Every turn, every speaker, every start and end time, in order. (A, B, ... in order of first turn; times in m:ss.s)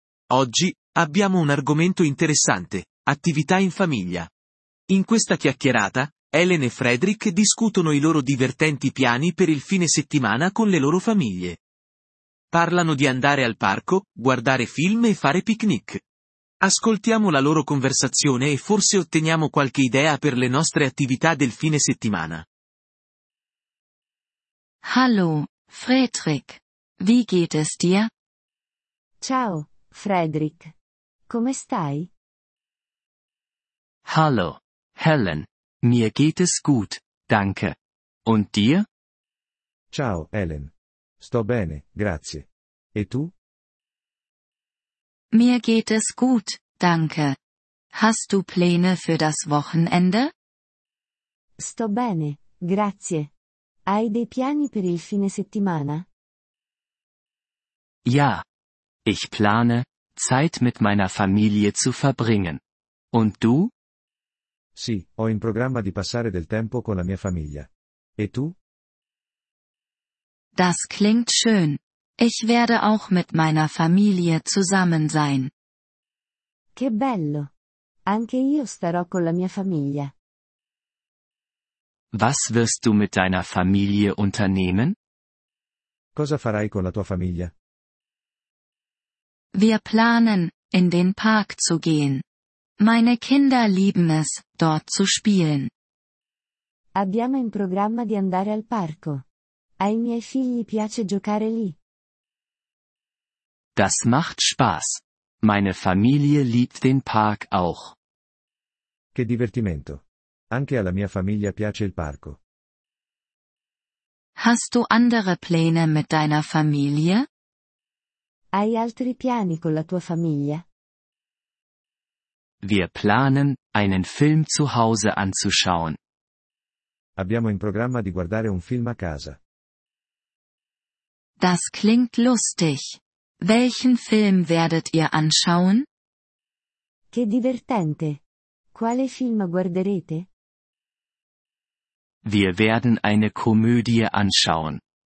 0:00.3-0:04.3 A
0:04.9-0:11.6 A
0:12.5-0:16.0 A
0:16.6-0:22.4 A
0:24.8-0:28.1 B
0:29.2-0:30.7 C
0:31.3-0:32.1 C
0:34.0-0:38.9 D
0:39.9-0:43.3 E
0:45.3-0:47.4 B
0:47.9-0:50.3 B
0:51.6-0:53.3 C
0:53.9-0:56.0 C
0:58.0-0:58.4 D
0:59.0-1:02.6 D
1:03.1-1:03.7 D
1:04.7-1:08.6 E
1:10.5-1:15.5 B
1:16.8-1:17.5 C
1:18.0-1:20.1 C
1:22.1-1:25.0 D
1:26.1-1:27.5 E
1:29.5-1:32.2 B
1:32.8-1:35.7 B
1:36.9-1:39.2 C
1:39.8-1:41.8 C
1:43.7-1:47.9 D
1:49.1-1:52.4 E
1:54.4-1:57.3 B
1:58.5-2:00.6 C
2:02.6-2:06.0 D
2:07.2-2:09.4 E
2:11.4-2:15.8 B
2:17.1-2:18.2 C
2:18.7-2:20.2 C
2:22.2-2:24.8 D